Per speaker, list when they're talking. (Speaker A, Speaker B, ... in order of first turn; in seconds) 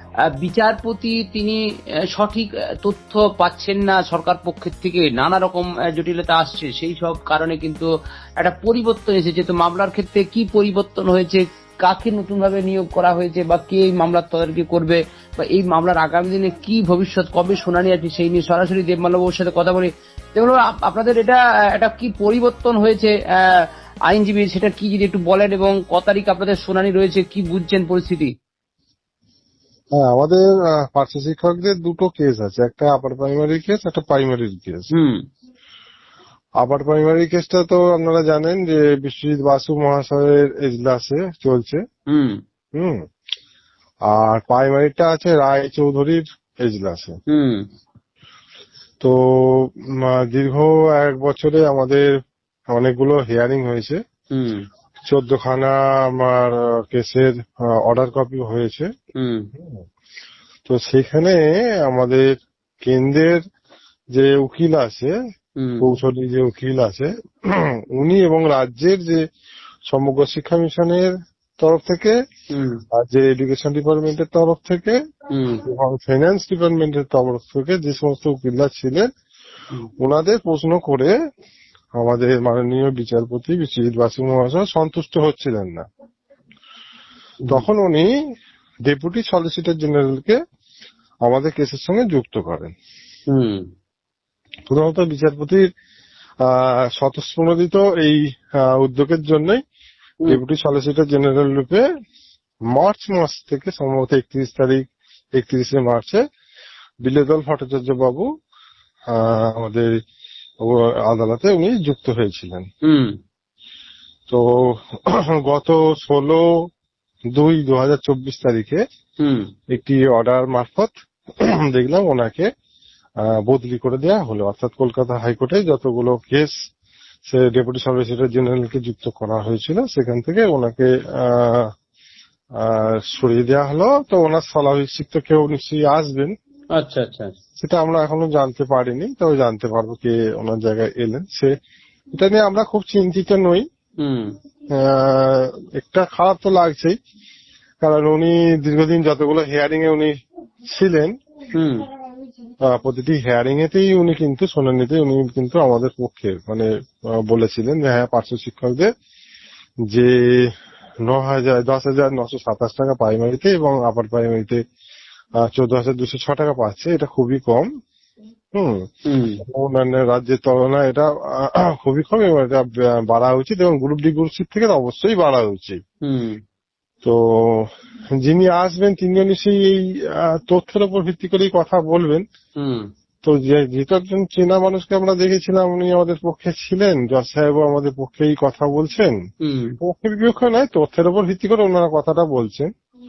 Speaker A: 0.4-1.6, 2.2-28.3, 34.9-35.2, 42.1-42.4, 47.3-47.6, 54.3-54.6, 59.2-59.5, 65.6-65.9, 72.5-72.8, 75.3-75.6, 93.3-93.7, 112.8-113.1, 119.2-119.5, 136.8-137.3, 144.0-144.3, 151.6-151.8, 169.1-169.4, 176.1-176.4, 182.6-182.9, 189.4-189.8
Speaker B: 29.9-34.9, 36.6-41.8, 42.8-43.0, 44.1-47.2, 49.0-52.1, 52.7-54.0, 55.1-58.9, 60.7-62.3, 62.9-63.4, 64.1-65.1, 65.8-69.2, 69.9-71.1, 71.6-72.2, 72.9-75.0, 75.6-79.1, 80.0-81.1, 82.0-85.9, 87.5-88.1, 88.9-90.4, 91.2-92.7, 94.7-95.6, 96.4-99.6, 100.3-101.8, 102.7-104.8, 105.4-106.2, 107.0-108.3, 109.1-109.9, 110.6-112.7, 114.3-116.4, 117.3-118.8, 119.7-120.9, 121.5-122.5, 123.2-126.5, 127.3-131.7, 132.6-136.3, 137.6-141.5, 142.2-143.6, 144.8-147.0, 147.8-150.1, 150.8-151.1, 152.7-156.7, 157.3-158.9, 159.9-160.4, 161.1-164.6, 165.4-167.7, 168.5-168.8, 169.4-175.8, 177.0-182.2, 183.2-189.2, 189.8-192.7